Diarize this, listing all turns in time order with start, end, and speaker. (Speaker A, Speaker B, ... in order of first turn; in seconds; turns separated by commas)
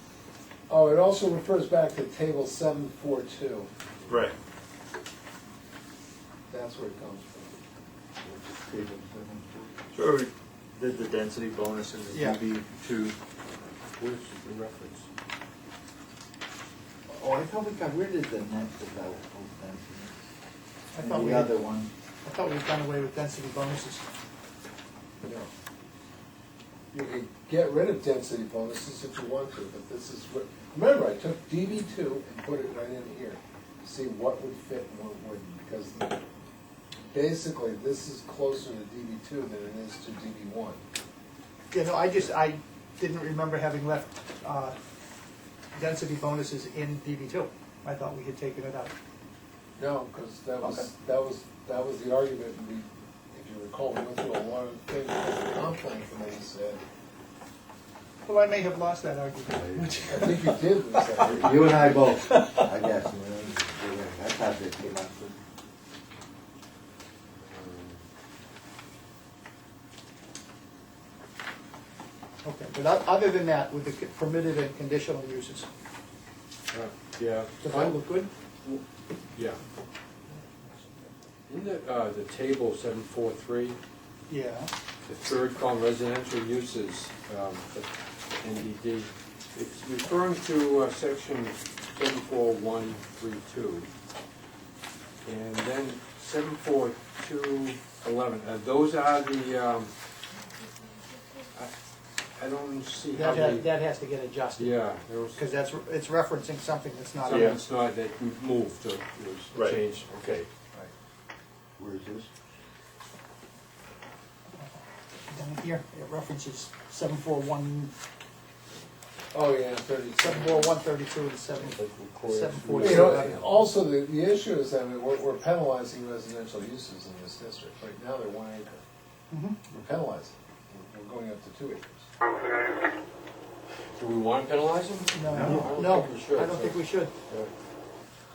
Speaker A: 0.7-3.7, Speaker B: 4.1-4.3, Speaker A: 6.5-7.6, Speaker C: 8.2-9.7, Speaker B: 9.9-13.1, Speaker D: 12.1-12.4, Speaker E: 14.0-15.0, Speaker C: 17.1-20.1, Speaker D: 20.9-21.5, Speaker C: 21.0-21.9, Speaker D: 22.2-24.0, Speaker A: 25.2-25.5, Speaker A: 26.9-36.2, Speaker A: 37.1-40.8, Speaker D: 41.7-44.7, Speaker D: 45.7-48.9, Speaker A: 49.8-56.8, Speaker D: 50.6-50.9, Speaker D: 58.2-60.2, Speaker C: 59.6-59.9, Speaker A: 59.8-61.8, Speaker C: 61.2-65.4, Speaker D: 62.3-62.6, Speaker E: 67.4-68.0, Speaker D: 72.4-75.7, Speaker E: 76.7-78.0, Speaker D: 77.6-78.3, Speaker E: 79.3-79.6, Speaker E: 81.5-83.8, Speaker D: 84.3-84.7, Speaker E: 85.0-93.9, Speaker E: 95.2-99.9, Speaker E: 102.3-103.7, Speaker D: 103.1-104.7, Speaker E: 104.6-105.4, Speaker D: 105.3-107.6, Speaker E: 107.2-110.5, Speaker B: 109.5-109.8, Speaker C: 111.8-112.3, Speaker D: 115.3-117.9, Speaker A: 119.3-120.8, Speaker D: 120.2-123.3, Speaker E: 121.6-123.5, Speaker A: 122.8-128.8, Speaker D: 129.3-129.6, Speaker A: 129.7-132.1, Speaker E: 133.9-137.5, Speaker D: 135.1-137.1, Speaker C: 135.3-135.7